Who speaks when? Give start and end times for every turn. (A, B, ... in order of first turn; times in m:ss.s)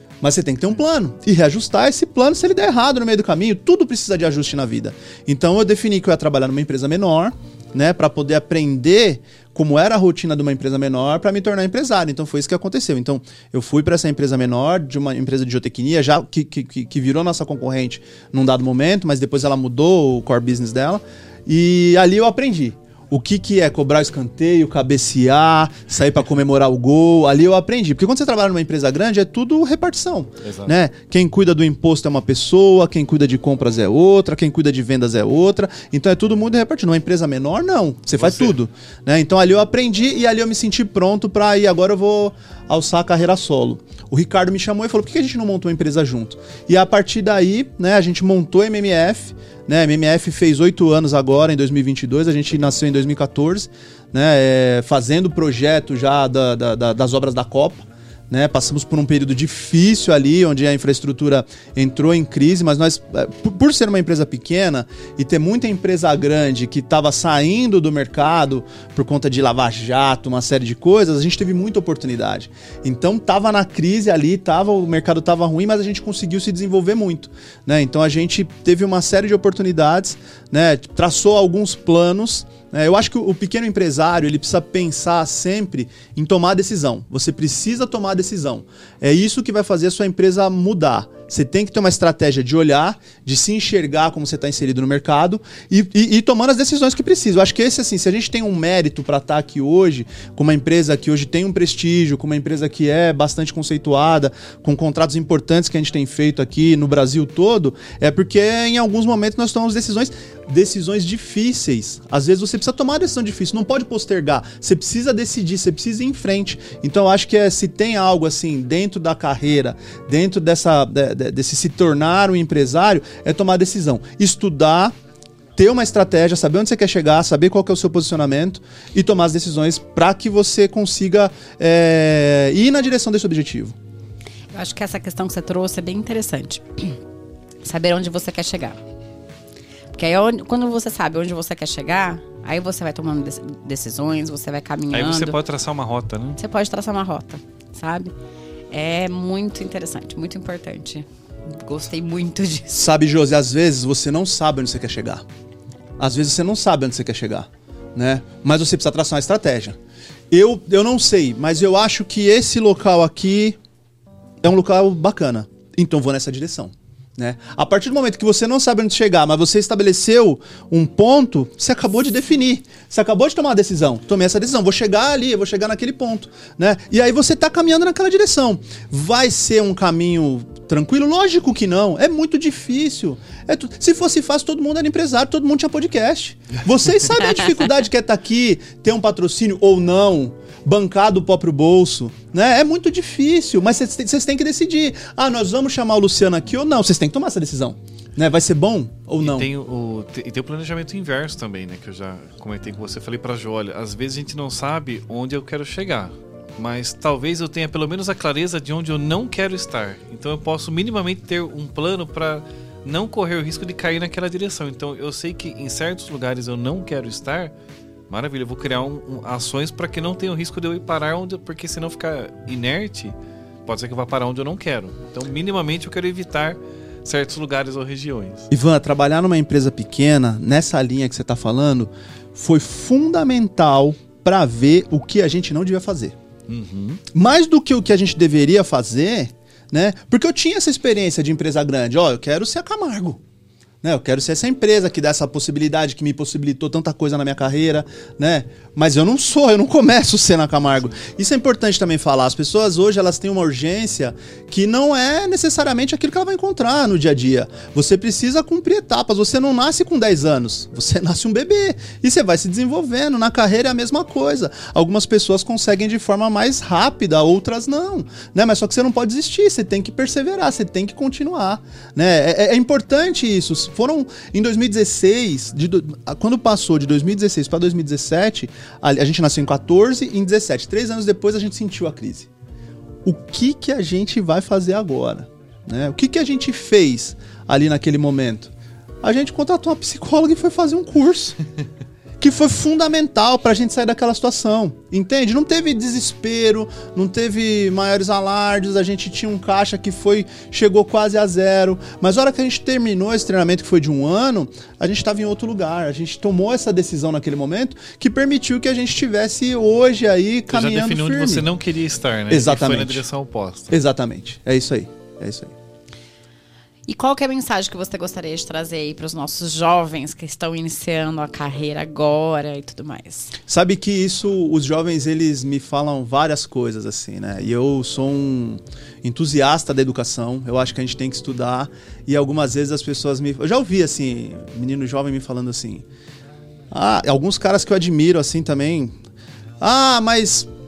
0:00.2-2:04.9 A
0:30.4-0:30.8 B
0:38.2-0:38.6 B
2:05.6-2:13.8 A
2:14.5-2:17.0 C
2:17.6-2:18.8 C
2:19.9-2:25.4 C
2:24.9-2:26.4 B
2:26.4-2:28.1 C
2:28.7-2:32.8 C
2:32.7-2:35.2 A
2:36.0-2:39.8 A
2:40.3-2:43.6 A
2:44.4-3:19.5 A
3:19.2-3:37.5 B
3:38.1-3:43.1 B
3:43.6-3:48.5 B
3:48.5-3:56.2 A
3:56.5-3:57.0 B
3:57.1-4:03.2 A
4:03.8-4:42.3 A
4:43.0-4:48.5 A
4:49.0-4:51.4 A
4:52.2-5:11.5 A
5:10.5-5:13.7 B
5:12.3-5:13.0 A
5:13.7-5:15.5 A
5:16.9-5:23.4 C
5:23.5-5:35.8 A
5:36.7-5:39.0 A
5:39.6-5:40.5 A